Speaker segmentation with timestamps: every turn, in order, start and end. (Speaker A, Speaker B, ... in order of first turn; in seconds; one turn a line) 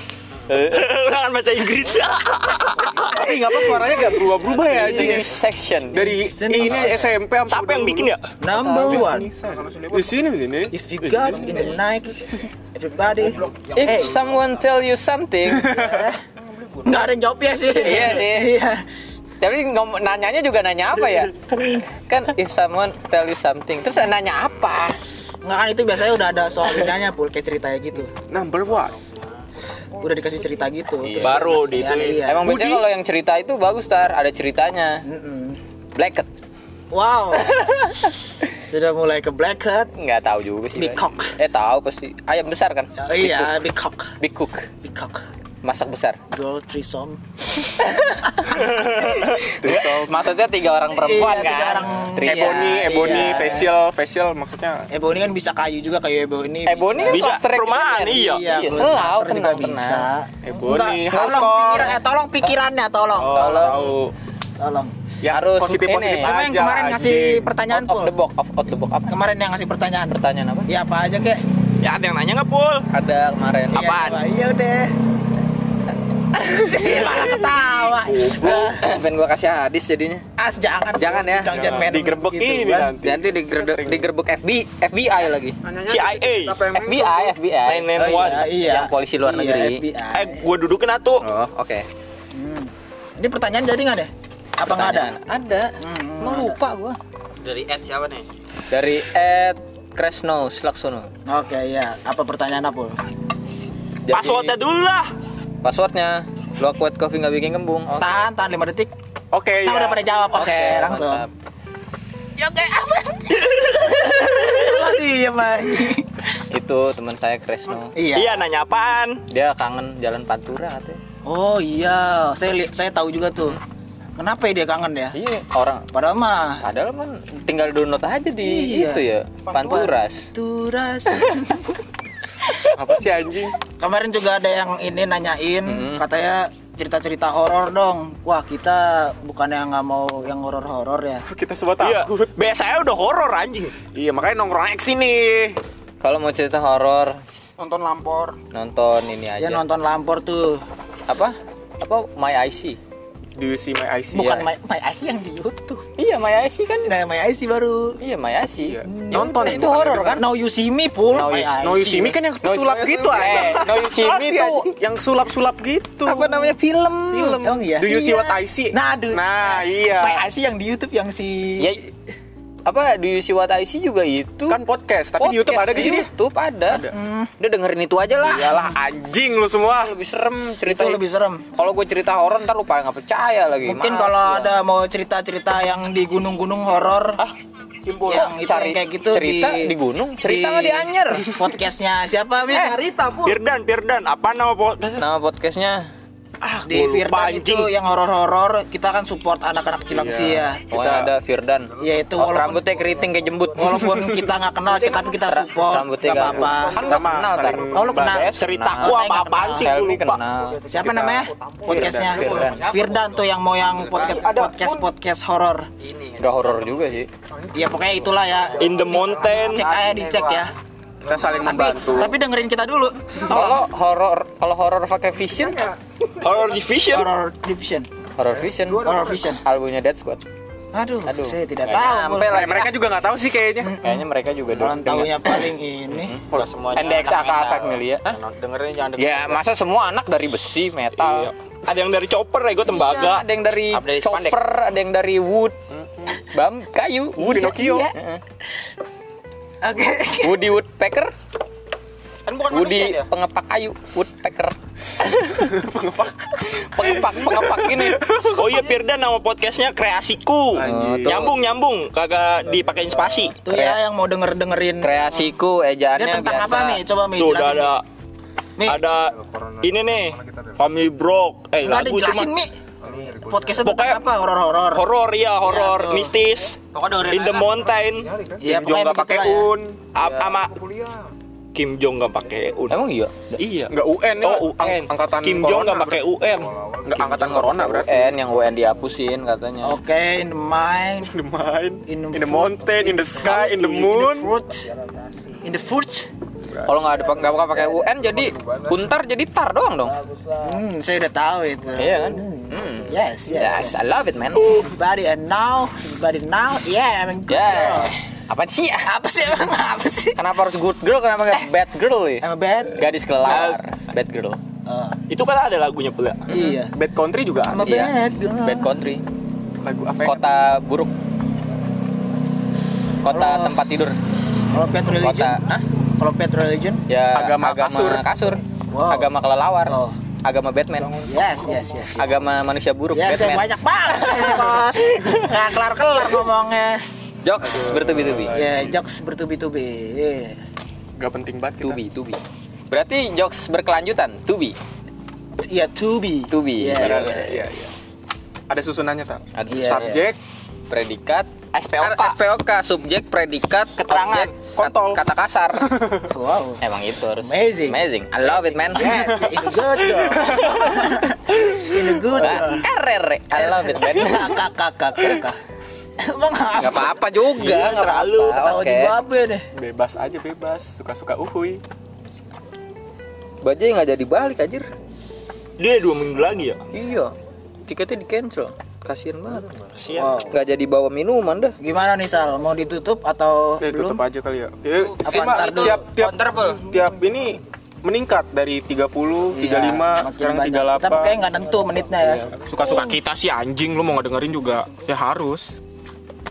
Speaker A: 0.5-0.9
Speaker B: 0.7-3.8
Speaker C: 3.0-5.3
Speaker A: 4.6-6.2
Speaker D: 4.7-5.3
Speaker C: 5.9-11.8
Speaker D: 6.1-7.2
Speaker B: 7.5-8.2
Speaker D: 8.4-9.3
Speaker A: 8.5-9.1
Speaker D: 10.7-14.2
Speaker A: 13.7-15.8
Speaker C: 15.5-16.1
Speaker D: 15.7-16.2
Speaker D: 16.8-18.9
Speaker A: 17.7-18.5
Speaker A: 19.4-25.0
Speaker D: 25.4-28.1
Speaker C: 28.3-29.0
Speaker D: 30.0-32.8
Speaker A: 31.0-35.0
Speaker B: 31.2-32.2
Speaker C: 32.5-32.8
Speaker D: 35.0-35.6
Speaker A: 36.0-36.3
Speaker D: 36.9-37.7
Speaker A: 37.5-38.1
Speaker D: 38.7-39.9
Speaker A: 40.0-43.5
Speaker D: 40.8-41.4
Speaker D: 43.0-44.1
Speaker A: 44.2-44.7
Speaker D: 44.8-45.2
Speaker A: 45.6-46.2
Speaker D: 46.3-48.6
Speaker A: 47.8-53.7
Speaker C: 49.4-50.1
Speaker D: 50.9-53.7
Speaker C: 52.2-54.9
Speaker D: 54.9-57.4
Speaker A: 56.7-60.1
Speaker B: 57.1-58.5
Speaker D: 58.2-64.0
Speaker C: 60.4-62.0
Speaker A: 61.1-62.5
Speaker C: 63.2-64.1
Speaker A: 63.3-64.0
Speaker D: 64.6-64.9
Speaker C: 65.2-67.5
Speaker A: 65.3-66.3
Speaker D: 66.2-68.2
Speaker A: 67.7-69.2
Speaker D: 69.1-71.4
Speaker A: 70.1-70.7
Speaker B: 71.8-72.9
Speaker A: 72.9-74.0
Speaker B: 73.8-74.2
Speaker D: 73.8-75.0
Speaker D: 76.4-78.8
Speaker C: 76.8-78.7
Speaker A: 78.5-80.2
Speaker D: 80.4-83.0
Speaker E: 81.0-81.5
Speaker C: 81.5-84.1
Speaker A: 83.0-85.6
Speaker C: 85.6-87.3
Speaker B: 85.9-86.6
Speaker A: 86.7-89.8
Speaker B: 87.7-88.5
Speaker D: 88.0-90.5
Speaker B: 90.1-91.2
Speaker A: 91.2-91.9
Speaker D: 92.3-95.1
Speaker A: 94.7-97.0
Speaker D: 95.8-96.6
Speaker E: 97.4-98.3
Speaker A: 98.7-101.1
Speaker D: 101.3-103.0
Speaker A: 104.0-104.6
Speaker B: 104.1-105.1
Speaker A: 105.6-108.2
Speaker D: 108.0-108.9
Speaker C: 109.3-110.0
Speaker D: 109.6-111.3
Speaker A: 110.3-111.3
Speaker D: 112.4-116.2
Speaker B: 113.4-114.6
Speaker A: 116.5-118.0
Speaker D: 117.9-118.5
Speaker B: 118.2-119.2
Speaker A: 119.3-121.0
Speaker D: 121.2-123.6
Speaker D: 124.2-125.2
Speaker A: 125.1-125.9
Speaker D: 125.9-126.6
Speaker A: 126.6-130.3
Speaker D: 128.4-131.8
Speaker C: 132.7-133.6
Speaker D: 133.7-141.2
Speaker A: 135.7-136.0
Speaker C: 141.3-142.3
Speaker B: 141.8-143.8
Speaker C: 143.9-145.6
Speaker A: 146.0-147.2
Speaker D: 147.7-148.3
Speaker A: 148.5-149.6
Speaker D: 149.4-150.6
Speaker A: 151.1-152.8
Speaker C: 153.4-154.3
Speaker D: 154.1-155.8
Speaker A: 154.2-154.5
Speaker A: 156.0-156.9
Speaker D: 156.8-158.0
Speaker A: 158.0-160.2
Speaker C: 158.6-160.2
Speaker D: 158.9-162.2
Speaker A: 161.1-161.6
Speaker C: 161.6-166.6
Speaker A: 162.4-164.7
Speaker D: 163.2-163.6
Speaker A: 166.0-168.3
Speaker C: 167.1-170.2
Speaker D: 167.4-171.8
Speaker A: 171.6-171.9
Speaker A: 172.7-174.6
Speaker C: 174.5-176.1
Speaker A: 175.2-176.9
Speaker D: 176.8-177.3
Speaker A: 177.4-178.7
Speaker C: 178.2-179.9
Speaker A: 179.8-181.0
Speaker D: 180.7-181.4
Speaker A: 181.6-184.6
Speaker D: 183.6-187.2
Speaker C: 187.9-188.2
Speaker D: 188.0-192.9
Speaker A: 188.1-191.3
Speaker E: 192.7-193.3
Speaker B: 193.2-195.1
Speaker A: 195.0-195.9
Speaker B: 196.4-197.7
Speaker D: 196.7-200.6
Speaker C: 199.9-201.1
Speaker A: 200.7-203.8
Speaker D: 201.8-202.9
Speaker D: 203.6-206.9
Speaker A: 205.3-210.6
Speaker C: 206.1-208.3
Speaker D: 207.7-209.7
Speaker B: 208.4-210.2
Speaker D: 210.7-215.7
Speaker C: 210.8-212.5
Speaker A: 212.1-212.7
Speaker E: 212.1-214.4
Speaker C: 213.9-214.8
Speaker E: 215.8-216.8
Speaker A: 216.2-217.1
Speaker D: 217.5-220.5
Speaker B: 218.6-219.7
Speaker E: 219.4-220.5
Speaker C: 221.0-222.1
Speaker D: 221.3-223.6
Speaker A: 223.2-225.7
Speaker B: 226.2-227.1
Speaker D: 226.9-227.9
Speaker A: 228.2-230.2
Speaker D: 228.8-229.4
Speaker D: 230.7-232.6
Speaker A: 231.1-232.8
Speaker C: 232.3-233.8
Speaker D: 233.6-236.2
Speaker A: 233.8-238.2
Speaker E: 236.3-239.4
Speaker A: 239.0-241.3
Speaker C: 241.0-241.3
Speaker B: 241.7-243.2
Speaker A: 242.7-245.6
Speaker E: 243.7-244.4
Speaker C: 245.7-246.2
Speaker A: 246.3-248.2
Speaker D: 247.2-247.9
Speaker D: 249.6-250.5
Speaker A: 250.2-251.1
Speaker E: 252.3-253.1
Speaker A: 252.5-254.6
Speaker C: 255.4-258.5
Speaker A: 256.5-258.2
Speaker B: 258.4-263.4
Speaker C: 260.5-261.3
Speaker A: 260.6-261.4
Speaker D: 263.4-265.3
Speaker A: 263.5-263.8
Speaker A: 264.8-266.8
Speaker D: 265.9-267.8
Speaker B: 267.2-267.8
Speaker B: 268.6-272.3
Speaker D: 271.6-274.9
Speaker B: 273.6-274.0
Speaker B: 274.7-278.1
Speaker D: 275.4-276.2
Speaker E: 276.7-277.6
Speaker D: 278.4-279.5
Speaker C: 278.4-279.8
Speaker B: 279.9-280.6
Speaker A: 280.0-280.3
Speaker B: 281.5-282.8
Speaker A: 282.7-283.4
Speaker B: 283.4-286.6
Speaker C: 283.7-286.0
Speaker C: 286.8-287.9
Speaker A: 286.9-289.8
Speaker D: 289.6-291.1
Speaker C: 291.1-294.3
Speaker D: 291.9-294.7
Speaker D: 295.4-296.1
Speaker A: 296.6-300.0
Speaker D: 300.4-303.8
Speaker A: 301.8-304.6
Speaker D: 304.4-307.9
Speaker A: 307.3-308.9
Speaker D: 308.8-310.2
Speaker A: 310.2-314.4
Speaker D: 312.2-313.5
Speaker B: 313.3-313.6
Speaker D: 314.7-315.0
Speaker B: 315.1-316.3
Speaker D: 316.3-316.8
Speaker C: 316.7-317.8
Speaker D: 317.5-318.9
Speaker A: 317.6-319.0
Speaker C: 319.6-320.2
Speaker A: 320.0-320.9
Speaker A: 323.0-324.0
Speaker D: 323.1-323.6
Speaker D: 324.5-325.4
Speaker A: 325.0-325.6
Speaker D: 326.0-326.8
Speaker A: 326.9-331.0
Speaker C: 327.1-328.1
Speaker D: 328.7-329.1
Speaker D: 329.7-329.9
Speaker D: 330.9-332.2
Speaker A: 332.0-333.5
Speaker D: 332.9-336.8
Speaker A: 337.2-338.4
Speaker C: 337.4-338.8
Speaker D: 338.3-340.4
Speaker C: 341.0-341.8
Speaker A: 341.6-344.6
Speaker D: 345.4-347.4
Speaker A: 346.3-347.3
Speaker C: 346.8-347.7
Speaker C: 348.5-350.2
Speaker A: 349.4-350.1
Speaker D: 349.5-350.0
Speaker A: 350.7-355.7
Speaker B: 351.5-352.2
Speaker B: 353.8-354.3
Speaker C: 354.5-355.0
Speaker C: 355.8-356.0
Speaker D: 356.1-356.6
Speaker A: 356.6-359.0
Speaker D: 357.2-362.7
Speaker C: 358.8-360.8
Speaker A: 362.1-364.4
Speaker D: 363.3-365.4
Speaker D: 366.0-367.1
Speaker A: 366.6-369.0
Speaker B: 367.4-368.5
Speaker D: 368.3-369.4
Speaker C: 369.5-371.6
Speaker A: 373.4-374.6
Speaker B: 375.6-376.6
Speaker A: 376.7-377.1
Speaker A: 377.6-379.5
Speaker B: 379.8-380.2
Speaker D: 379.9-380.4
Speaker A: 380.3-381.6
Speaker D: 381.6-384.0
Speaker C: 383.6-391.2
Speaker E: 385.0-386.6
Speaker D: 385.0-385.8
Speaker D: 389.3-392.9
Speaker C: 392.0-395.5